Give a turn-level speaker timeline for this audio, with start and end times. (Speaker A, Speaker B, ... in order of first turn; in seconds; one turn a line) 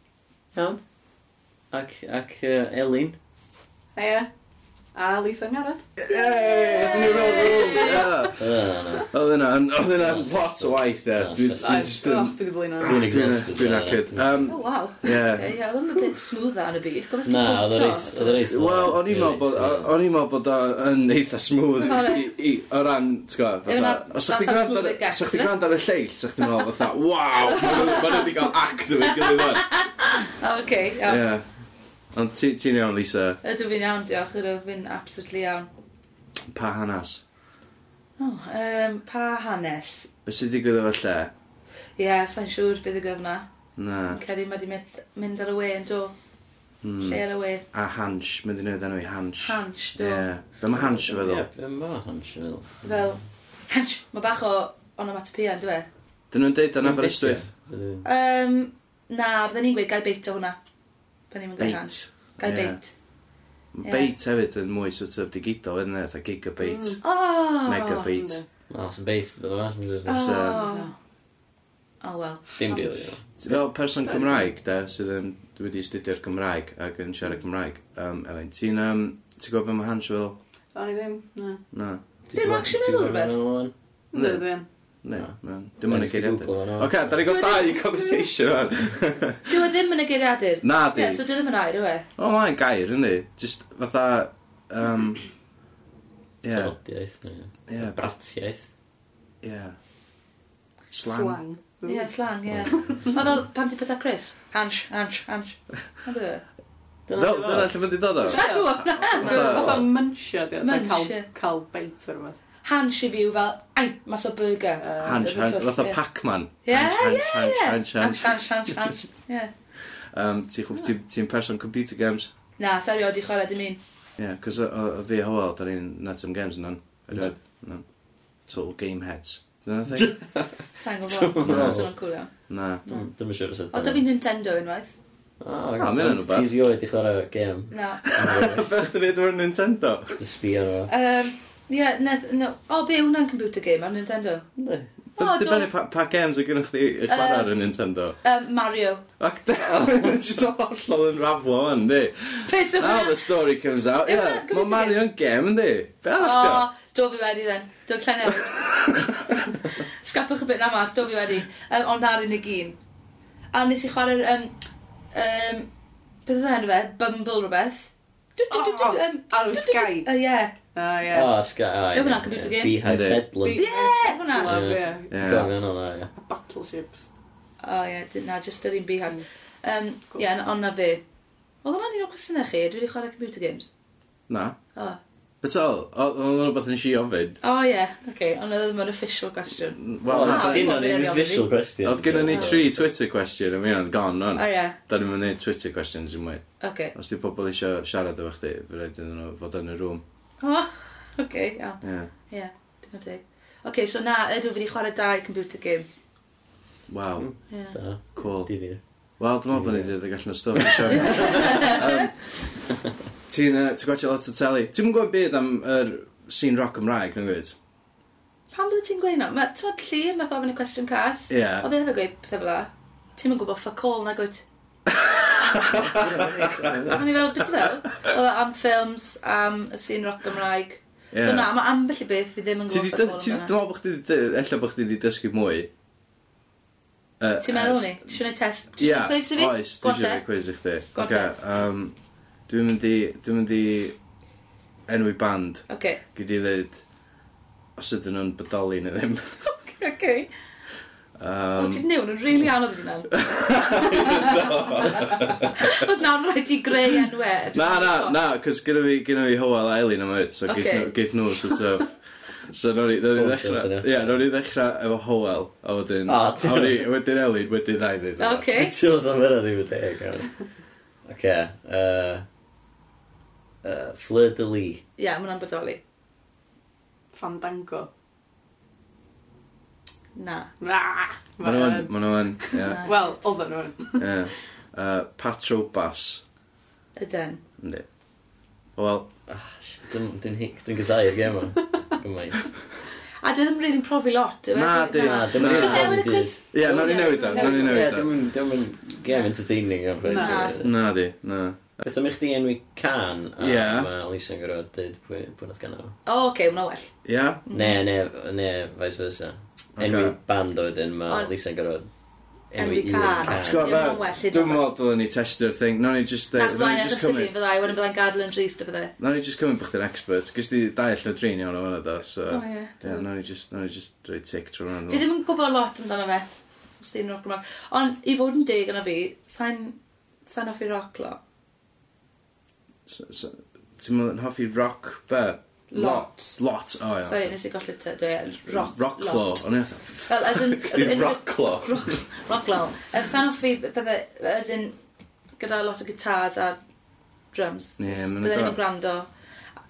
Speaker A: 0.5-0.8
Speaker A: 1.7-3.2
Speaker B: 3.9-4.3
Speaker B: 4.9-5.9
Speaker C: 6.0-15.6
Speaker D: 6.2-8.1
Speaker B: 6.6-8.3
Speaker A: 8.2-9.1
Speaker A: 10.0-11.9
Speaker B: 11.6-13.0
Speaker A: 12.8-14.5
Speaker D: 14.5-18.4
Speaker A: 17.2-19.9
Speaker C: 18.4-29.6
Speaker D: 21.8-22.3
Speaker D: 23.7-25.5
Speaker D: 27.4-28.4
Speaker D: 29.0-31.2
Speaker C: 31.1-31.4
Speaker C: 32.1-33.4
Speaker D: 33.4-35.7
Speaker C: 36.5-37.2
Speaker D: 38.2-40.1
Speaker C: 40.2-41.3
Speaker D: 42.0-43.5
Speaker C: 43.8-44.2
Speaker D: 44.1-46.1
Speaker C: 46.8-47.2
Speaker D: 47.0-47.6
Speaker C: 47.7-51.4
Speaker D: 49.4-50.3
Speaker A: 50.7-53.0
Speaker D: 52.8-55.9
Speaker C: 56.3-57.5
Speaker A: 56.8-58.0
Speaker D: 58.0-60.6
Speaker D: 61.3-62.9
Speaker C: 61.6-62.8
Speaker C: 63.7-67.0
Speaker D: 63.8-64.1
Speaker B: 66.6-67.0
Speaker D: 67.0-68.1
Speaker C: 67.6-68.4
Speaker B: 68.1-68.4
Speaker A: 68.7-70.4
Speaker D: 70.0-70.9
Speaker C: 70.2-70.6
Speaker B: 70.4-70.9
Speaker D: 72.0-72.5
Speaker A: 72.6-73.2
Speaker B: 72.7-73.1
Speaker C: 73.4-80.4
Speaker B: 74.0-74.5
Speaker B: 80.7-81.6
Speaker C: 81.7-82.0
Speaker D: 82.3-83.4
Speaker A: 82.3-83.7
Speaker B: 84.1-84.7
Speaker C: 84.1-84.5
Speaker C: 85.0-89.5
Speaker A: 85.1-87.3
Speaker D: 87.2-88.3
Speaker D: 89.5-92.0
Speaker C: 90.6-91.2
Speaker C: 92.2-95.2
Speaker C: 96.4-96.7
Speaker A: 96.5-98.7
Speaker C: 97.7-98.1
Speaker C: 99.4-99.7
Speaker C: 100.9-101.4
Speaker B: 101.0-102.1
Speaker D: 101.8-106.4
Speaker A: 107.1-107.8
Speaker C: 107.1-109.9
Speaker D: 108.2-109.7
Speaker B: 108.2-112.4
Speaker D: 110.6-111.3
Speaker D: 112.6-116.0
Speaker B: 114.8-115.2
Speaker C: 115.0-118.4
Speaker D: 116.6-119.5
Speaker C: 120.1-122.3
Speaker D: 122.6-123.8
Speaker C: 124.2-127.8
Speaker C: 128.5-130.1
Speaker A: 129.9-130.5
Speaker D: 130.8-132.3
Speaker A: 131.0-131.9
Speaker C: 131.4-131.8
Speaker C: 132.5-132.8
Speaker A: 132.9-134.0
Speaker D: 133.7-134.9
Speaker A: 135.4-138.7
Speaker C: 135.8-136.5
Speaker D: 137.7-138.0
Speaker C: 138.1-140.2
Speaker A: 140.1-140.9
Speaker D: 140.9-144.5
Speaker A: 144.6-144.9
Speaker D: 145.2-145.7
Speaker C: 145.2-148.2
Speaker D: 147.1-147.5
Speaker D: 148.2-149.0
Speaker C: 149.2-156.7
Speaker D: 152.4-153.3
Speaker D: 154.0-155.0
Speaker D: 156.2-158.6
Speaker C: 158.4-159.3
Speaker D: 159.8-162.8
Speaker D: 163.5-164.5
Speaker D: 165.1-165.7
Speaker D: 166.2-170.5
Speaker B: 168.5-170.1
Speaker B: 170.7-171.3
Speaker A: 171.1-173.7
Speaker D: 171.9-172.8
Speaker C: 172.8-173.2
Speaker B: 173.4-175.6
Speaker D: 173.5-174.8
Speaker A: 174.4-176.1
Speaker C: 175.1-175.5
Speaker B: 176.1-177.1
Speaker D: 177.6-181.0
Speaker D: 181.6-183.7
Speaker C: 184.3-184.6
Speaker D: 184.7-185.0
Speaker C: 185.4-187.4
Speaker D: 187.4-191.5
Speaker C: 189.8-190.8
Speaker A: 190.0-192.8
Speaker C: 191.8-200.0
Speaker D: 192.3-192.5
Speaker D: 194.3-194.8
Speaker D: 196.6-196.9
Speaker D: 200.4-205.9
Speaker C: 201.8-202.1
Speaker C: 206.9-207.3
Speaker A: 207.2-208.8
Speaker D: 207.5-207.8
Speaker C: 208.2-208.5
Speaker C: 209.2-212.3
Speaker A: 209.5-209.9
Speaker A: 210.5-211.8
Speaker D: 210.9-212.1
Speaker C: 213.3-217.5
Speaker D: 218.5-224.4
Speaker C: 221.3-221.7
Speaker C: 224.9-227.0
Speaker A: 225.7-227.1
Speaker D: 226.9-233.5
Speaker C: 231.1-231.5
Speaker C: 232.7-235.7
Speaker C: 237.2-238.1
Speaker D: 237.4-240.2
Speaker C: 238.8-241.9
Speaker D: 240.9-241.3
Speaker C: 242.5-243.9
Speaker C: 244.9-246.8
Speaker D: 245.7-246.0
Speaker C: 247.8-249.3
Speaker D: 249.4-250.3
Speaker C: 251.2-251.8
Speaker D: 251.6-258.1
Speaker C: 253.1-255.8
Speaker C: 257.5-261.9
Speaker D: 260.5-260.9
Speaker C: 262.5-268.5
Speaker A: 263.1-264.2
Speaker A: 266.1-266.9
Speaker D: 268.2-268.7
Speaker A: 268.5-270.4
Speaker A: 271.1-272.2
Speaker A: 273.6-274.8
Speaker D: 275.0-275.8
Speaker B: 277.1-277.9
Speaker D: 280.1-280.5
Speaker B: 280.6-284.3
Speaker C: 281.4-282.8
Speaker D: 282.6-283.2
Speaker C: 283.9-286.2
Speaker D: 286.9-287.4
Speaker C: 287.6-287.8
Speaker C: 288.8-289.1
Speaker A: 289.3-292.6
Speaker D: 293.2-297.8
Speaker C: 294.5-296.0
Speaker A: 295.0-300.7
Speaker C: 296.5-298.1
Speaker B: 297.3-297.7
Speaker B: 300.0-300.5
Speaker D: 300.1-300.5
Speaker C: 300.6-301.8
Speaker A: 301.8-305.9
Speaker C: 303.4-303.9
Speaker D: 306.1-306.9
Speaker C: 307.0-307.4
Speaker D: 307.4-307.8
Speaker A: 307.5-311.9
Speaker C: 309.8-310.1
Speaker D: 311.1-311.3
Speaker A: 312.5-313.9
Speaker D: 312.6-314.7
Speaker C: 313.2-317.3
Speaker D: 316.3-318.9
Speaker C: 319.0-325.0
Speaker D: 322.3-323.0
Speaker D: 324.9-326.2
Speaker D: 326.8-331.2
Speaker C: 332.9-337.3
Speaker D: 335.7-336.4
Speaker D: 337.1-339.4
Speaker C: 338.5-342.0
Speaker D: 340.0-344.8
Speaker D: 345.4-346.6
Speaker D: 347.3-349.1
Speaker C: 347.8-348.6